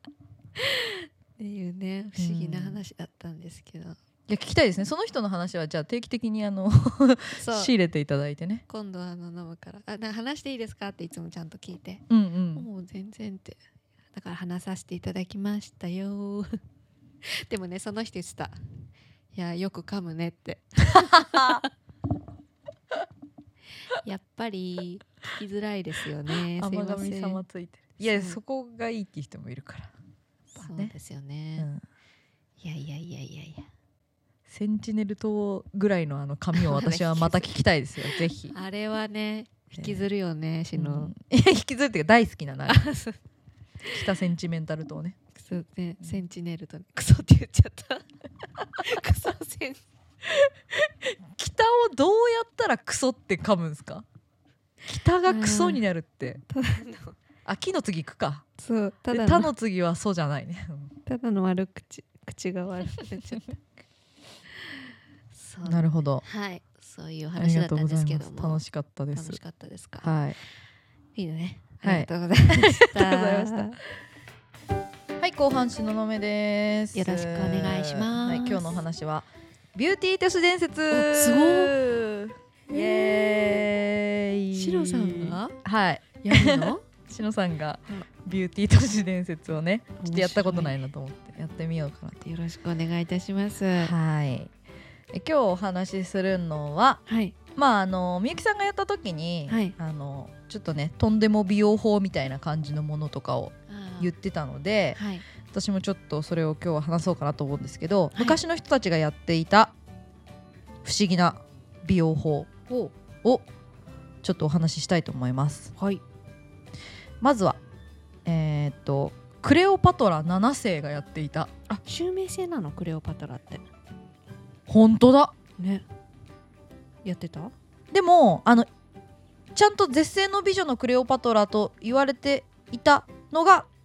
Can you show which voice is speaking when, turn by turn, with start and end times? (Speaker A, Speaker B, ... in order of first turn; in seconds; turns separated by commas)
Speaker A: 0.6-4.0, Speaker B: 2.2-2.8, Speaker B: 4.3-8.6, Speaker A: 7.4-7.7, Speaker A: 8.7-13.6, Speaker B: 12.1-12.7, Speaker A: 14.1-16.6, Speaker A: 17.2-18.6, Speaker A: 19.3-21.7, Speaker B: 21.1-21.6, Speaker A: 23.9-27.4, Speaker B: 26.3-29.9, Speaker A: 28.0-28.4, Speaker B: 30.5-30.9, Speaker A: 30.5-31.7, Speaker B: 31.6-31.8, Speaker A: 32.6-33.7, Speaker B: 34.5-38.5, Speaker A: 36.5-41.1, Speaker B: 39.8-40.0, Speaker B: 40.8-42.8, Speaker A: 42.7-43.2, Speaker B: 43.9-45.1, Speaker A: 45.3-48.0, Speaker A: 48.6-49.8, Speaker B: 50.2-54.0, Speaker B: 54.9-56.4, Speaker A: 55.2-55.8, Speaker A: 56.5-57.2, Speaker B: 57.4-58.4, Speaker A: 58.6-59.5, Speaker B: 59.1-60.9, Speaker A: 61.0-63.6, Speaker A: 65.3-68.6, Speaker B: 65.6-66.2, Speaker B: 67.4-69.4, Speaker A: 69.1-70.2, Speaker B: 70.0-70.4, Speaker A: 71.2-73.8, Speaker B: 71.8-73.8, Speaker B: 75.2-92.2, Speaker A: 76.9-78.8, Speaker A: 80.9-81.8, Speaker A: 82.7-83.5, Speaker A: 84.5-85.6, Speaker A: 86.2-86.8, Speaker A: 90.0-90.8, Speaker A: 92.2-93.9, Speaker B: 93.8-94.5, Speaker B: 95.1-97.0, Speaker A: 97.0-97.3, Speaker B: 97.5-105.0, Speaker A: 99.5-99.8, Speaker A: 103.7-104.1, Speaker A: 104.9-105.2, Speaker B: 105.5-109.7, Speaker A: 108.1-108.4, Speaker B: 110.8-112.5, Speaker B: 114.2-115.7, Speaker A: 115.8-116.0, Speaker B: 117.2-117.6, Speaker B: 118.2-121.5, Speaker A: 121.7-123.6, Speaker B: 124.7-125.3, Speaker A: 125.6-125.8, Speaker A: 127.0-127.5, Speaker B: 127.9-128.7, Speaker B: 129.5-133.7